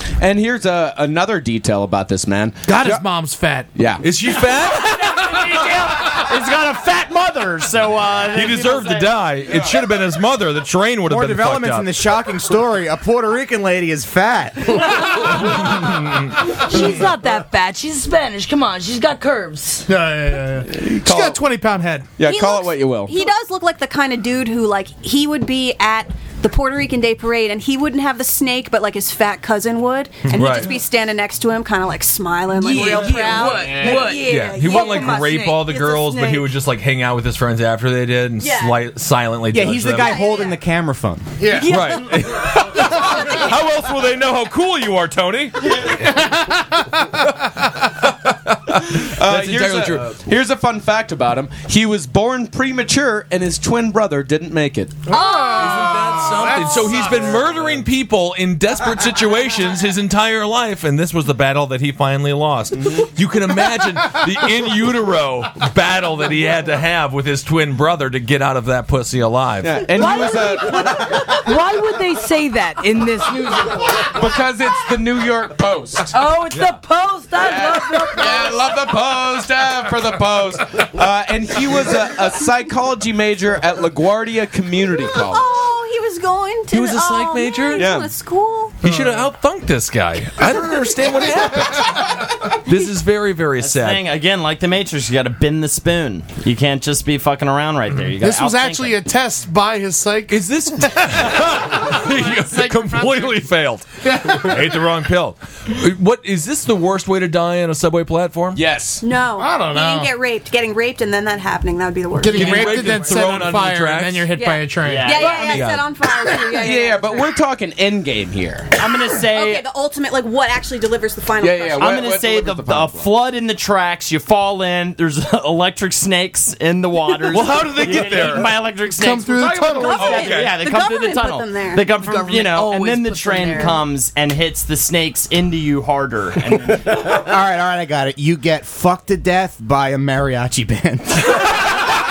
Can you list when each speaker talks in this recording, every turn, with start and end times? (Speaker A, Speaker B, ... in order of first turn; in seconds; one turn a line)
Speaker A: 0.2-3.0
Speaker B: 2.7-3.7
Speaker A: 3.8-4.0
Speaker C: 4.0-5.6
Speaker D: 5.5-9.2
Speaker C: 8.3-11.9
Speaker A: 9.5-9.7
Speaker E: 11.1-15.2
Speaker F: 16.5-19.9
Speaker B: 19.9-22.1
Speaker A: 20.7-21.4
Speaker A: 22.2-23.2
Speaker G: 22.2-36.6
Speaker C: 30.3-30.8
Speaker F: 32.6-35.7
Speaker A: 33.5-34.0
Speaker C: 33.8-40.2
Speaker G: 38.4-38.9
Speaker E: 39.5-41.4
Speaker G: 40.0-40.6
Speaker B: 41.4-42.0
Speaker F: 41.6-41.9
Speaker C: 41.6-45.9
Speaker B: 45.8-47.3
Speaker C: 47.4-50.2
Speaker A: 48.9-55.1
Speaker B: 55.1-57.5
Speaker G: 55.1-55.8
Speaker C: 55.5-69.9
Speaker A: 69.6-71.4
Speaker F: 69.9-74.1
Speaker A: 74.0-76.2
Speaker F: 76.1-78.6
Speaker C: 76.5-76.8
Speaker A: 77.4-85.5
Speaker G: 85.1-88.9
Speaker C: 86.7-88.0
Speaker A: 87.8-88.1
Speaker C: 88.8-94.1
Speaker D: 93.6-99.0
Speaker B: 98.2-103.5
Speaker C: 100.3-108.6
Speaker B: 104.0-104.8
Speaker A: 108.5-109.0
Speaker G: 109.0-113.3
Speaker B: 109.4-110.1
Speaker B: 112.2-115.2
Speaker C: 112.3-114.3
Speaker G: 114.3-117.3
Speaker D: 114.8-115.7
Speaker C: 115.3-115.9
Speaker A: 116.5-118.7
Speaker D: 118.8-119.7
Speaker G: 119.2-122.1
Speaker A: 121.4-123.2
Speaker D: 121.8-137.1
Speaker C: 127.2-128.6
Speaker B: 128.9-130.0
Speaker G: 129.4-131.9
Speaker C: 130.0-130.5
Speaker A: 130.1-130.4
Speaker F: 131.9-133.8
Speaker E: 137.1-141.5